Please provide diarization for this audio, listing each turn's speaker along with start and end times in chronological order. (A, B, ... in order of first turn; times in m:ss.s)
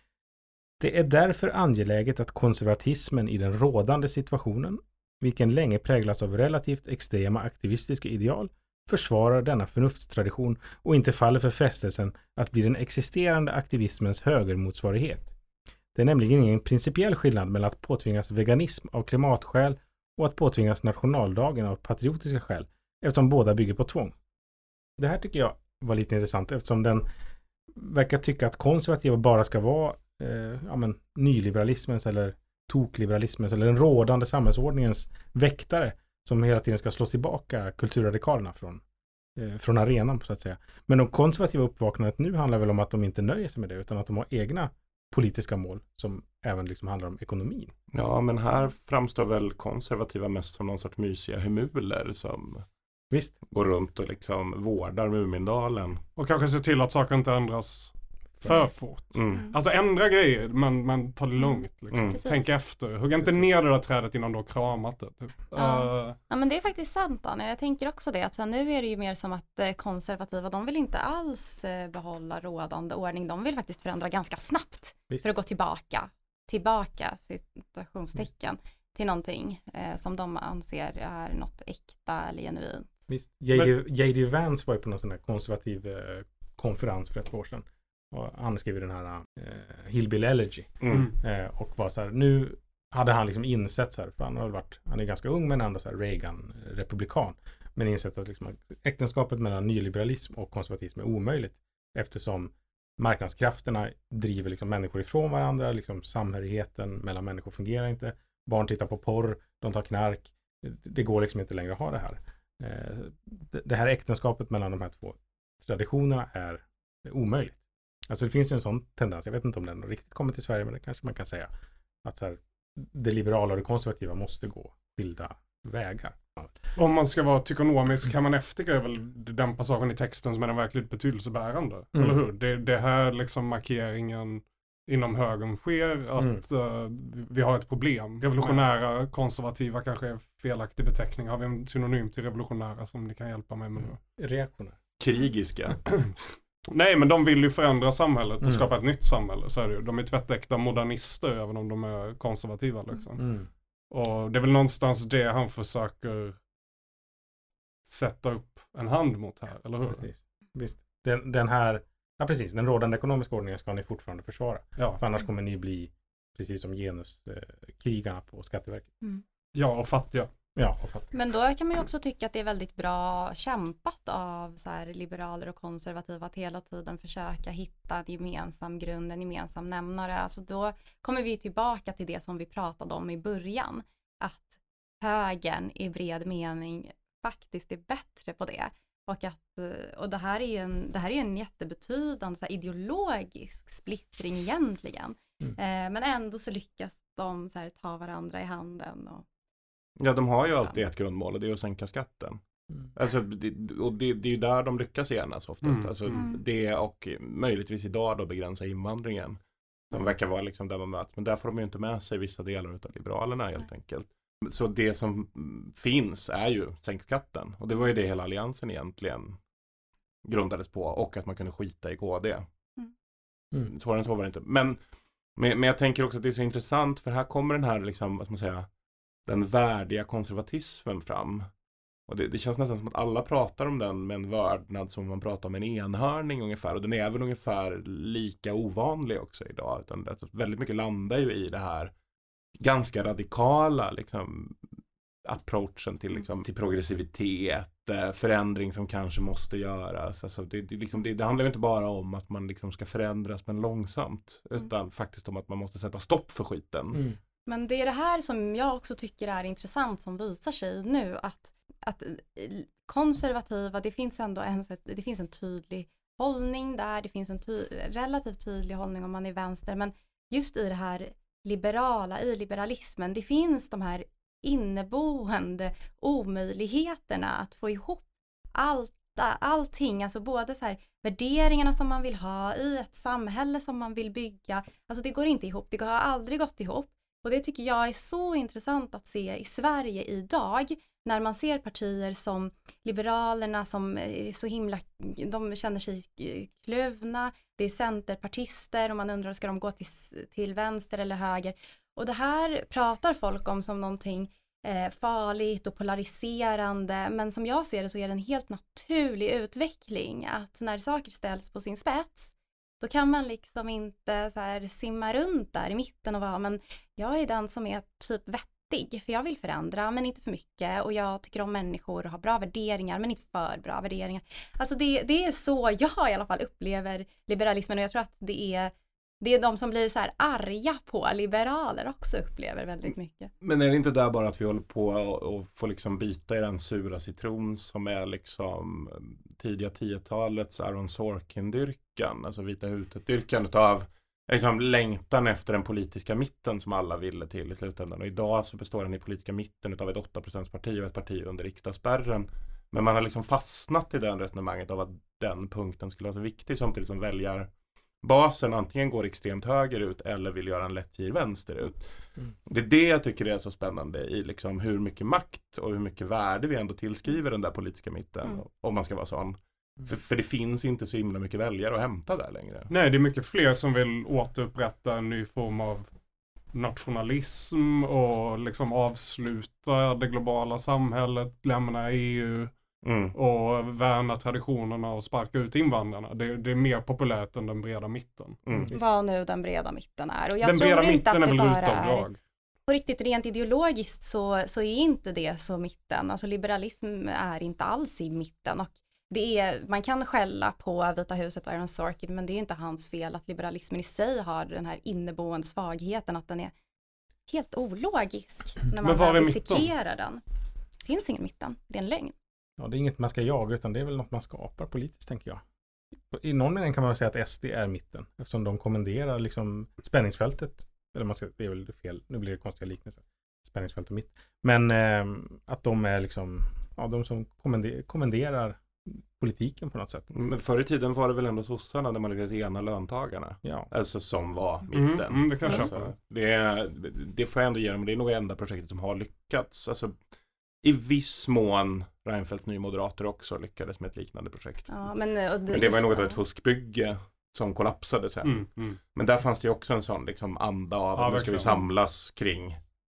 0:00.8-0:15.3 A
0:15.9-0:24.1 A
0:25.0-0:27.1 A
0:27.7-0:38.8 A
0:39.4-0:47.7 A
0:47.9-0:52.6 B
0:53.1-0:53.4 A
0:53.4-0:56.0 B
0:56.2-1:06.2 C
0:59.1-0:59.4 B
1:01.9-1:02.2 B
1:02.1-1:02.4 D
1:05.5-1:23.0 D
1:23.1-2:01.5 A
1:30.8-1:31.1 B
2:02.0-2:06.5 A
2:06.8-2:24.0 C
2:11.9-2:12.2 A
2:16.2-2:16.4 A
2:23.8-2:24.8 A
2:25.0-2:25.9 B
2:26.7-2:33.2 C
2:28.4-2:28.7 A
2:33.2-2:33.5 A
2:33.9-2:36.4 C
2:37.8-2:40.0 C
2:39.9-2:48.9 A
2:49.5-2:50.3 C
2:50.6-2:51.1 A
2:51.1-3:19.2 D
3:20.0-3:22.4 B
3:22.9-3:29.4 B
3:25.6-3:26.2 C
3:26.1-3:26.4 D
3:29.9-3:39.4 B
3:40.2-3:42.4 B
3:43.6-3:44.8 B
3:45.4-3:48.7 B
3:49.2-3:51.5 B
3:52.1-4:01.9 B
4:02.6-4:04.6 B
4:05.2-4:17.0 B
4:17.5-4:38.0 D
4:38.5-5:33.3 D
5:33.4-5:57.5 B
5:58.0-6:01.8 B
6:02.4-6:12.7 B
6:12.7-6:15.9 C
6:16.5-6:22.5 C
6:22.8-6:23.2 B
6:23.1-6:28.4 C
6:28.5-6:28.7 B
6:28.5-6:28.8 A
6:28.7-6:32.1 D
6:30.4-6:32.2 C
6:32.7-6:46.5 D
6:47.3-6:50.2 D
6:48.8-6:49.7 C
6:50.8-6:52.1 D
6:52.6-6:55.4 A
6:56.1-7:10.1 A
7:10.1-7:19.9 B
7:13.4-7:13.7 A
7:14.7-7:15.9 C
7:20.6-7:24.8 B
7:24.7-7:26.2 D
7:25.5-7:32.6 B
7:28.2-7:28.8 C
7:31.0-7:31.6 C